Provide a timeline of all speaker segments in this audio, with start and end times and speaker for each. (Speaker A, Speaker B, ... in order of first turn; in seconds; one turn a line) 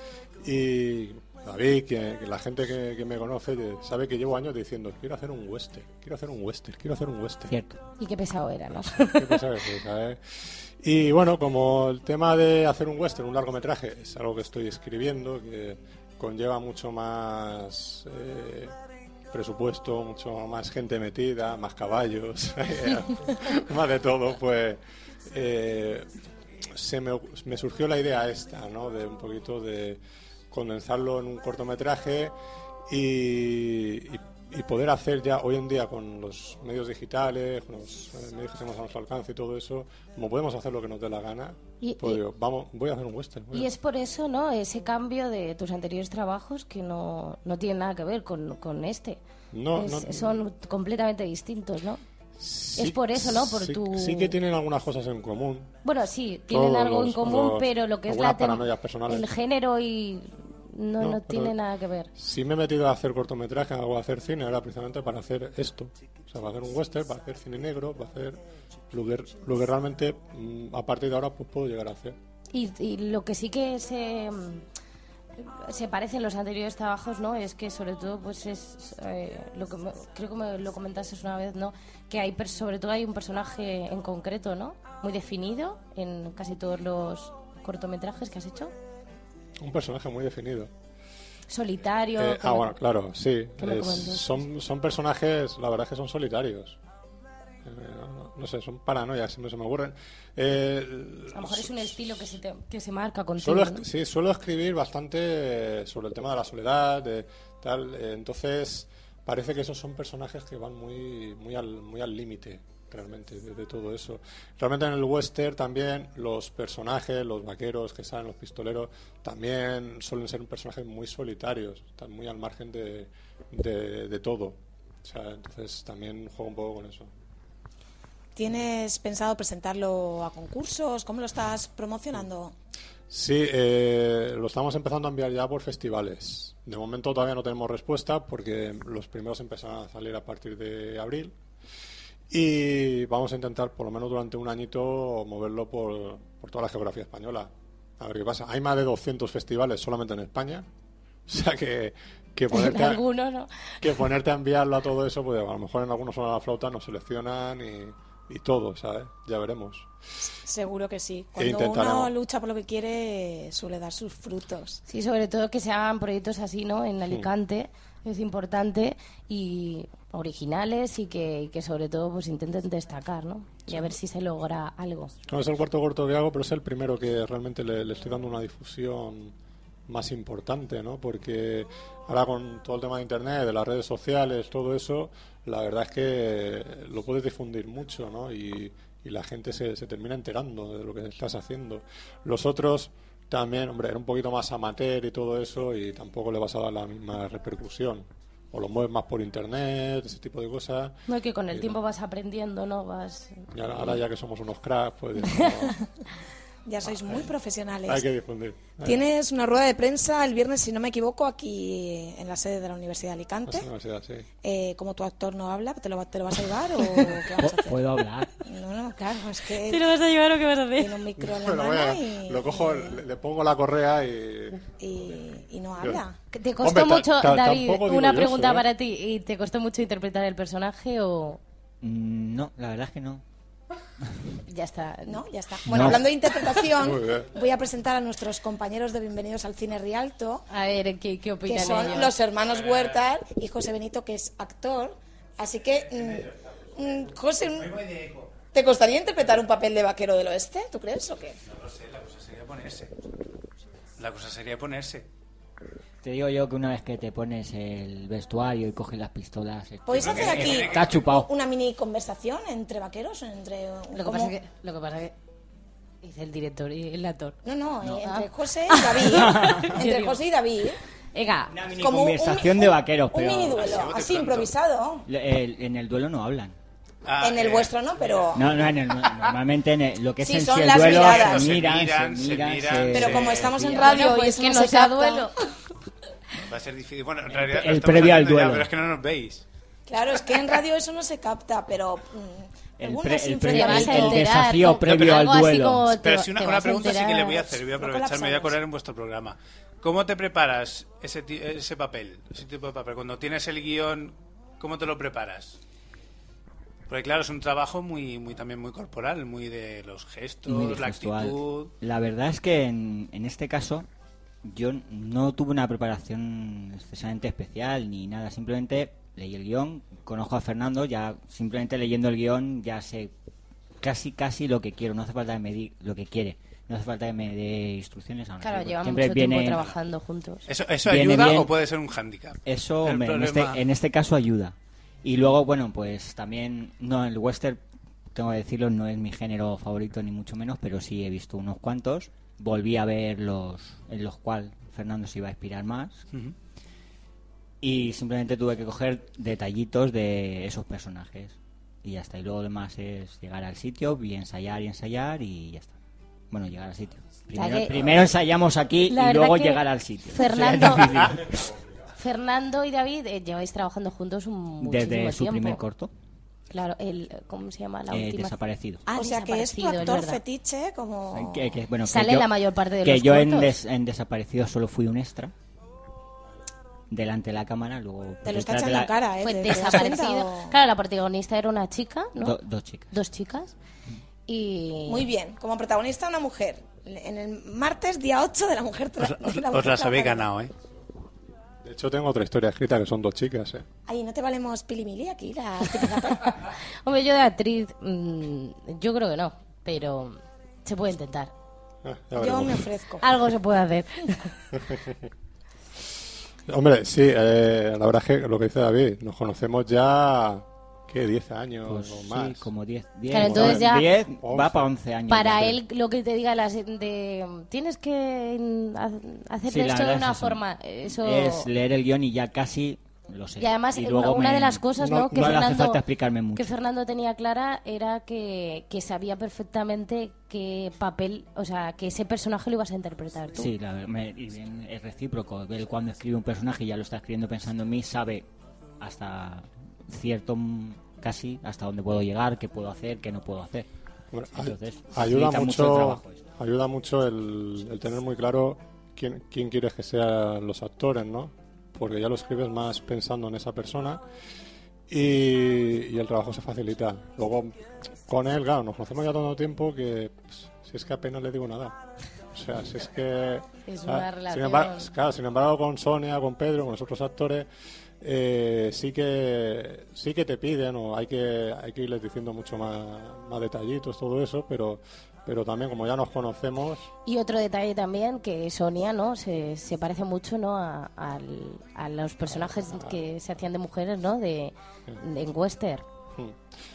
Speaker A: 0.4-7.5
Speaker B: 7.5-7.8
Speaker C: 8.0-9.4
Speaker A: 9.1-18.8
Speaker A: 19.3-26.1
Speaker A: 26.7-32.3
Speaker A: 32.9-43.7
Speaker C: 41.8-42.2
Speaker C: 43.5-49.2
Speaker A: 49.5-50.4
Speaker C: 49.8-52.0
Speaker A: 52.4-55.7
Speaker C: 52.8-54.4
Speaker C: 55.8-62.1
Speaker A: 56.5-59.3
Speaker A: 61.0-61.6
Speaker A: 62.1-72.2
Speaker C: 72.5-74.6
Speaker C: 75.4-88.7
Speaker A: 89.6-90.7
Speaker C: 91.5-92.8
Speaker A: 92.2-96.8
Speaker C: 93.6-94.3
Speaker A: 97.6-102.0
Speaker C: 101.3-103.8
Speaker A: 103.4-127.1
Speaker D: 128.3-132.5
Speaker A: 133.1-141.3
Speaker A: 142.3-150.7
Speaker A: 151.3-153.0
Speaker C: 152.5-153.5
Speaker A: 153.8-159.9
Speaker D: 160.4-164.8
Speaker A: 161.4-162.1
Speaker C: 164.9-175.1
Speaker A: 175.3-179.3
Speaker A: 179.9-201.0
Speaker C: 201.1-203.4
Speaker A: 201.5-201.8
Speaker A: 203.5-205.8
Speaker C: 205.3-205.7
Speaker D: 206.7-208.0
Speaker A: 207.9-209.1
Speaker D: 208.8-213.7
Speaker A: 213.5-214.3
Speaker D: 214.4-217.8
Speaker B: 217.4-218.3
Speaker D: 218.4-219.9
Speaker C: 219.6-221.0
Speaker D: 220.8-223.0
Speaker A: 221.2-224.7
Speaker D: 224.8-226.2
Speaker C: 226.3-231.4
Speaker A: 226.6-228.7
Speaker B: 231.8-233.2
Speaker C: 234.5-235.3
Speaker D: 235.1-240.4
Speaker B: 235.7-236.1
Speaker A: 236.8-237.3
Speaker C: 240.5-242.2
Speaker D: 241.4-247.8
Speaker E: 242.4-243.0
Speaker E: 247.6-248.3
Speaker D: 248.5-251.4
Speaker E: 251.5-252.9
Speaker E: 254.0-255.1
Speaker B: 256.0-261.3
Speaker D: 259.9-264.4
Speaker E: 259.9-261.0
Speaker C: 263.9-265.1
Speaker C: 266.0-267.4
Speaker D: 267.4-270.8
Speaker B: 267.8-268.1
Speaker C: 268.0-270.2
Speaker B: 269.0-269.8
Speaker C: 271.1-271.6
Speaker B: 271.5-273.8
Speaker D: 271.8-275.1
Speaker E: 273.6-274.5
Speaker B: 275.0-276.6
Speaker E: 277.1-277.8
Speaker D: 277.2-278.4
Speaker B: 278.3-284.1
Speaker D: 280.2-281.6
Speaker E: 280.7-283.4
Speaker D: 282.9-285.3
Speaker C: 283.7-285.4
Speaker E: 286.5-289.4
Speaker B: 287.3-288.7
Speaker D: 289.9-294.2
Speaker B: 292.8-295.9
Speaker C: 293.5-297.4
Speaker E: 294.8-295.2
Speaker E: 295.9-305.6
Speaker D: 297.4-298.6
Speaker E: 306.9-311.7
Speaker B: 310.4-313.9
Speaker B: 314.4-323.1
Speaker B: 323.8-329.7
Speaker C: 328.4-330.5
Speaker E: 330.5-333.6
Speaker B: 330.9-331.5
Speaker B: 332.4-337.6
Speaker B: 338.1-346.1
Speaker B: 347.6-355.8
Speaker B: 356.3-361.4
Speaker C: 357.3-358.1
Speaker C: 358.9-361.3
Speaker C: 361.9-365.6
Speaker B: 364.6-365.9
Speaker C: 366.5-368.4
Speaker B: 367.9-368.8
Speaker D: 368.9-371.6
Speaker C: 368.9-370.2
Speaker B: 371.1-372.3
Speaker C: 371.8-373.6
Speaker B: 372.8-375.3
Speaker B: 376.9-378.9
Speaker D: 378.2-380.6
Speaker C: 379.2-382.4
Speaker B: 379.5-379.9
Speaker B: 382.2-382.9
Speaker C: 382.9-383.5
Speaker C: 384.3-385.1
Speaker D: 384.9-390.3
Speaker E: 389.0-390.5
Speaker A: 391.6-393.7
Speaker D: 393.9-396.3
Speaker C: 396.8-401.3
Speaker A: 401.8-402.6
Speaker D: 402.2-403.0
Speaker C: 403.0-404.4
Speaker A: 406.5-412.5
Speaker B: 411.6-415.6
Speaker C: 413.1-413.9
Speaker A: 413.1-414.7
Speaker C: 415.1-421.5
Speaker B: 419.5-426.5
Speaker C: 423.4-425.8
Speaker A: 424.8-425.4
Speaker C: 426.3-433.5
Speaker B: 433.3-438.3
Speaker B: 438.8-443.7
Speaker A: 444.1-454.0
Speaker B: 444.4-446.2
Speaker A: 454.9-457.6
Speaker A: 458.1-461.8
Speaker A: 462.3-467.5
Speaker C: 463.6-464.9
Speaker A: 468.0-476.9
Speaker C: 477.1-485.8
Speaker A: 482.3-483.0
Speaker A: 486.2-486.4